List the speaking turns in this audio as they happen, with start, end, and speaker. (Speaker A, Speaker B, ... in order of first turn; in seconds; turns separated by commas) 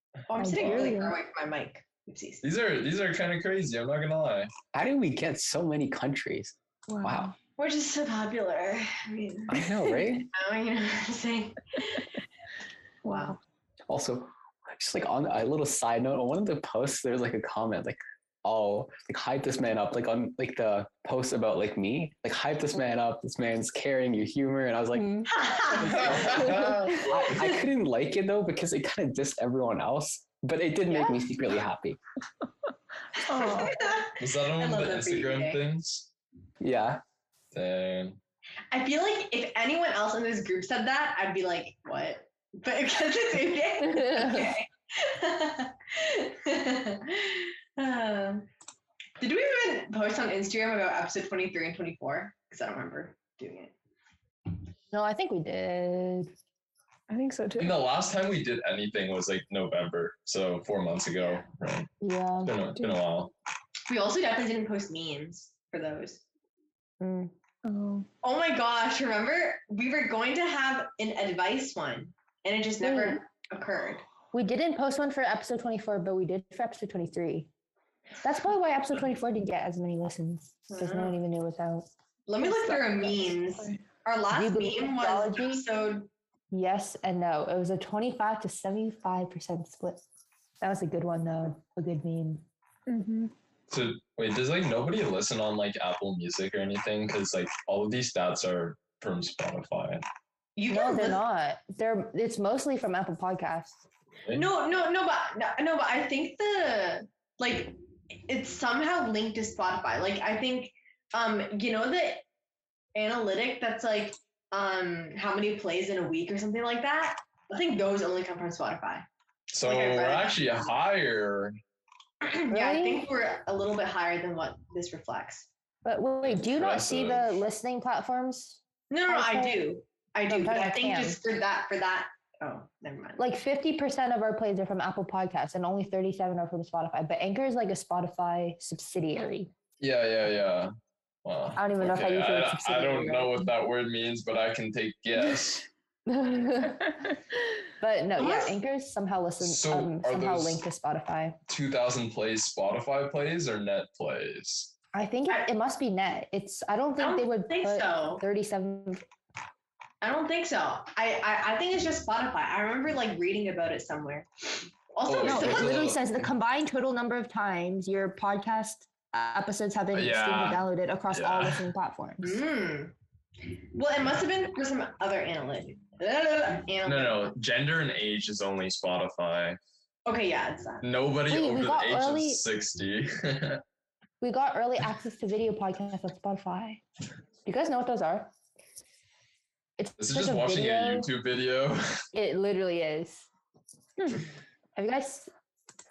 Speaker A: 0.3-2.5, Speaker B: 0.3-1.2, Speaker C: 0.5-0.8, Speaker C: 2.4-4.5, Speaker D: 4.7-7.3, Speaker E: 6.9-7.3, Speaker A: 7.6-12.1, Speaker D: 9.5-10.3, Speaker A: 13.0-13.4, Speaker E: 13.1-13.4, Speaker D: 13.9-32.0, Speaker B: 24.9-25.3, Speaker A: 25.3-26.3, Speaker C: 25.8-27.4, Speaker B: 26.4-26.7, Speaker A: 27.2-27.6, Speaker B: 30.9-31.2, Speaker A: 33.2-35.6, Speaker E: 33.2-33.8, Speaker C: 34.2-36.1, Speaker D: 36.6-37.0, Speaker C: 37.5-38.2, Speaker A: 38.7-48.5, Speaker A: 49.2-53.7, Speaker B: 54.9-56.3, Speaker E: 57.1-57.8, Speaker C: 57.6-61.9, Speaker B: 62.0-62.5, Speaker C: 62.4-63.3, Speaker E: 62.8-63.0, Speaker A: 63.9-66.2, Speaker B: 67.0-67.3, Speaker E: 67.6-68.1, Speaker A: 68.2-74.0, Speaker B: 72.8-73.2, Speaker B: 74.3-77.5, Speaker B: 78.2-83.4, Speaker A: 80.7-81.2, Speaker A: 82.3-86.1, Speaker B: 84.3-85.6, Speaker B: 86.5-90.0, Speaker B: 90.6-92.5, Speaker E: 92.9-93.3, Speaker C: 93.7-100.0, Speaker A: 100.5-101.2, Speaker B: 100.7-103.8, Speaker A: 104.3-112.2, Speaker A: 112.9-119.0, Speaker C: 119.5-121.6, Speaker A: 119.6-120.7, Speaker A: 122.2-125.5, Speaker B: 122.5-123.1, Speaker B: 125.8-129.7, Speaker C: 126.2-127.3, Speaker A: 128.9-133.2, Speaker B: 130.3-131.2, Speaker B: 133.2-139.5, Speaker C: 139.8-140.7, Speaker C: 141.2-145.6, Speaker B: 141.6-143.5, Speaker B: 146.1-147.1, Speaker B: 147.8-151.4, Speaker A: 148.2-148.6, Speaker C: 149.4-150.6, Speaker C: 151.5-154.7, Speaker B: 154.9-159.0, Speaker A: 157.0-158.2, Speaker A: 160.0-165.9, Speaker C: 165.1-166.3, Speaker B: 165.2-172.4, Speaker C: 169.9-171.7, Speaker A: 172.2-172.9, Speaker A: 173.7-177.3, Speaker C: 176.8-179.6, Speaker A: 180.0-180.8, Speaker C: 180.8-183.6, Speaker B: 181.3-182.4, Speaker B: 184.2-186.8, Speaker B: 187.4-188.3, Speaker B: 189.8-191.1, Speaker C: 190.0-191.8, Speaker B: 192.1-193.3, Speaker B: 194.0-195.3